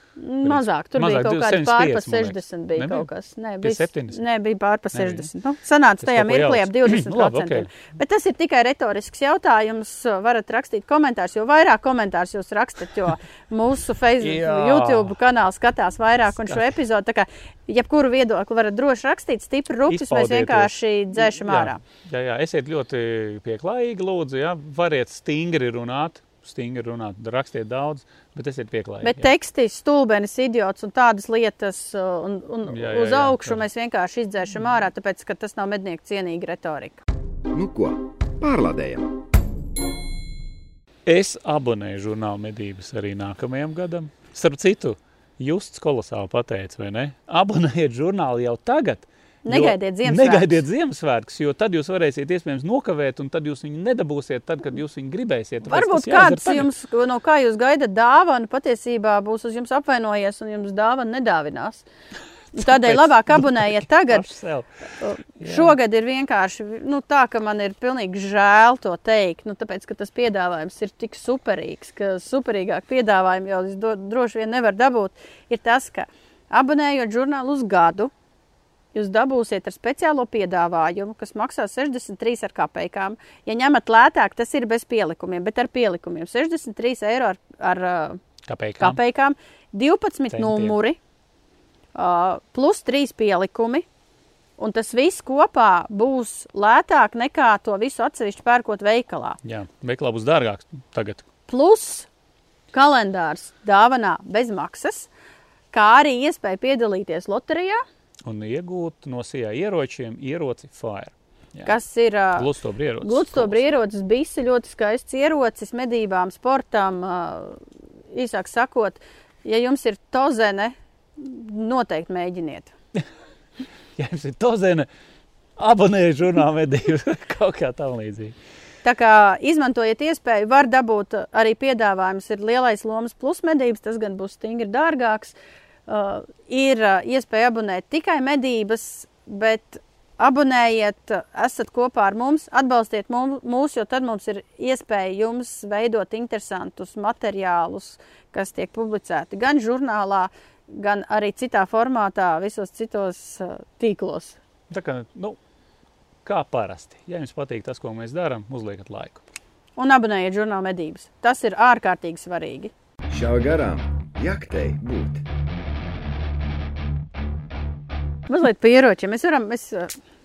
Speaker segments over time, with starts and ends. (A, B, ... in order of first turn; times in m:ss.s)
0:00.2-0:21.8 A
0:00.4-0:03.1 B
0:03.6-0:04.2 B
0:04.9-0:05.3 B
0:06.0-0:07.7 B
0:14.2-0:15.2 B
0:16.4-0:16.7 B
0:19.9-0:29.3 B
0:29.0-0:37.0 A
0:32.6-0:33.6 B
0:37.5-0:39.2 C
0:41.0-0:56.7 B
0:49.4-0:50.6 A
0:55.6-1:01.8 A
1:02.5-1:04.3 A
1:02.6-1:04.8 B
1:05.0-1:18.1 A
1:05.4-1:05.7 B
1:18.9-1:28.2 A
1:28.5-1:29.0 B
1:28.8-1:31.0 A
1:30.3-1:30.7 B
1:31.9-1:33.8 A
1:34.6-1:39.4 A
1:39.4-1:41.2 B
1:41.5-1:42.1 A
1:42.7-1:45.1 A
1:45.7-1:47.8 A
1:48.2-1:51.8 B
1:51.6-1:52.5 A
1:52.4-1:53.6 B
1:53.0-1:57.6 A
1:58.1-2:02.7 A
2:04.0-2:04.9 B
2:05.6-2:08.3 B
2:08.8-2:15.4 A
2:15.9-2:34.4 A
2:34.7-2:35.4 B
2:36.2-2:39.2 B
2:39.8-2:42.7 A
2:43.1-2:45.2 C
2:48.3-2:50.0 A